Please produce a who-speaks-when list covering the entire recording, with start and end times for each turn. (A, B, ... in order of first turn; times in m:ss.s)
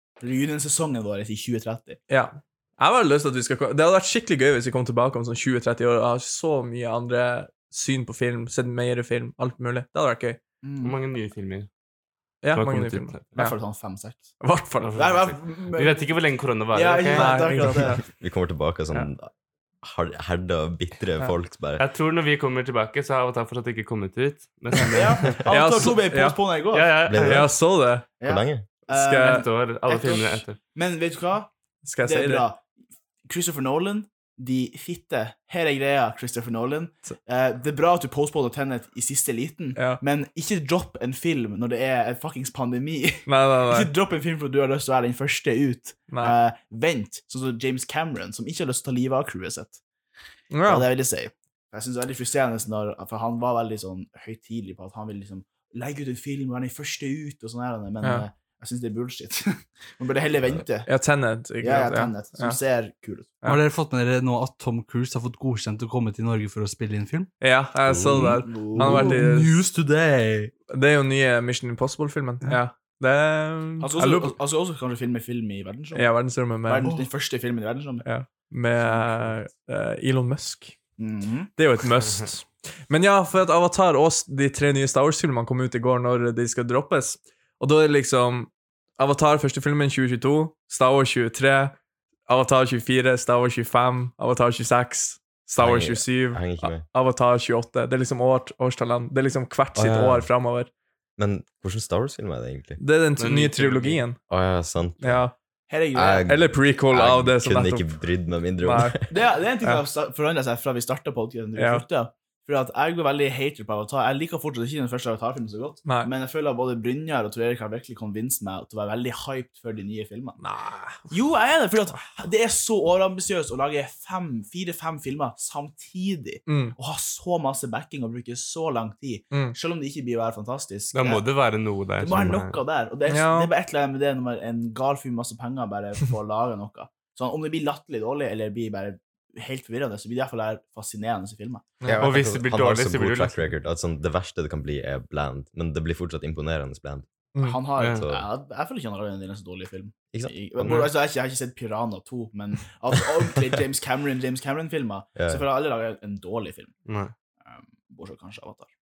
0:00.2-0:02.0 A
0:02.1-0:10.4 B
0:10.6-0:11.0 A
0:10.8-0:11.7 C
0:12.4-0:13.6 B
0:12.5-0:13.2 C
0:13.4-0:14.3 A
0:14.4-0:15.0 B
0:14.8-0:17.5 C
0:15.0-0:16.1 A
0:16.7-0:18.0 A
0:17.1-0:18.0 B
0:18.0-0:19.3 D
0:19.8-0:21.8 D
0:21.8-0:25.4 C
0:24.8-0:27.0 A
0:25.5-0:26.4 B
0:26.7-0:27.5 C
0:27.1-0:27.5 D
0:27.1-0:28.1 B
0:28.2-0:31.5 A
0:28.2-0:28.6 D
0:28.9-0:29.4 B
0:29.2-0:30.6 C
0:31.8-0:32.5 B
0:32.0-0:32.6 A
0:33.3-0:49.8 A
0:43.3-0:43.9 B
0:50.5-0:50.9 B
0:50.7-1:00.9 A
1:00.9-1:02.6 B
1:01.6-1:03.4 A
1:03.4-1:07.3 E
1:07.4-1:09.6 B
1:07.9-1:08.4 D
1:08.4-1:09.2 A
1:08.7-1:10.5 E
1:10.7-1:14.4 B
1:13.8-1:16.1 A
1:15.9-1:17.0 B
1:16.7-1:18.1 A
1:18.0-1:20.8 B
1:18.8-1:19.3 A
1:21.0-1:21.5 A
1:21.6-1:31.8 B
1:32.3-1:40.7 B
1:35.6-1:36.8 D
1:39.8-1:40.2 C
1:41.2-1:42.8 D
1:42.8-1:44.2 B
1:43.2-1:44.0 C
1:44.3-1:45.2 D
1:45.0-1:45.3 B
1:45.7-1:46.4 A
1:45.9-1:49.1 D
1:46.2-1:48.0 B
1:48.6-1:49.0 B
1:49.1-2:00.4 A
1:51.6-1:51.8 B
2:00.4-2:01.0 B
2:01.1-2:11.3 A
2:06.5-2:06.8 B
2:10.9-2:12.6 C
2:12.0-2:21.7 A
2:13.1-2:13.5 B
2:21.8-2:22.1 B
2:21.8-2:27.0 D
2:22.0-2:23.5 C
2:27.4-2:36.7 A
2:27.8-2:28.0 C
2:27.8-2:28.3 D
2:30.1-2:30.9 D
2:35.2-2:35.4 D
2:36.9-2:37.1 C
2:37.5-2:38.7 A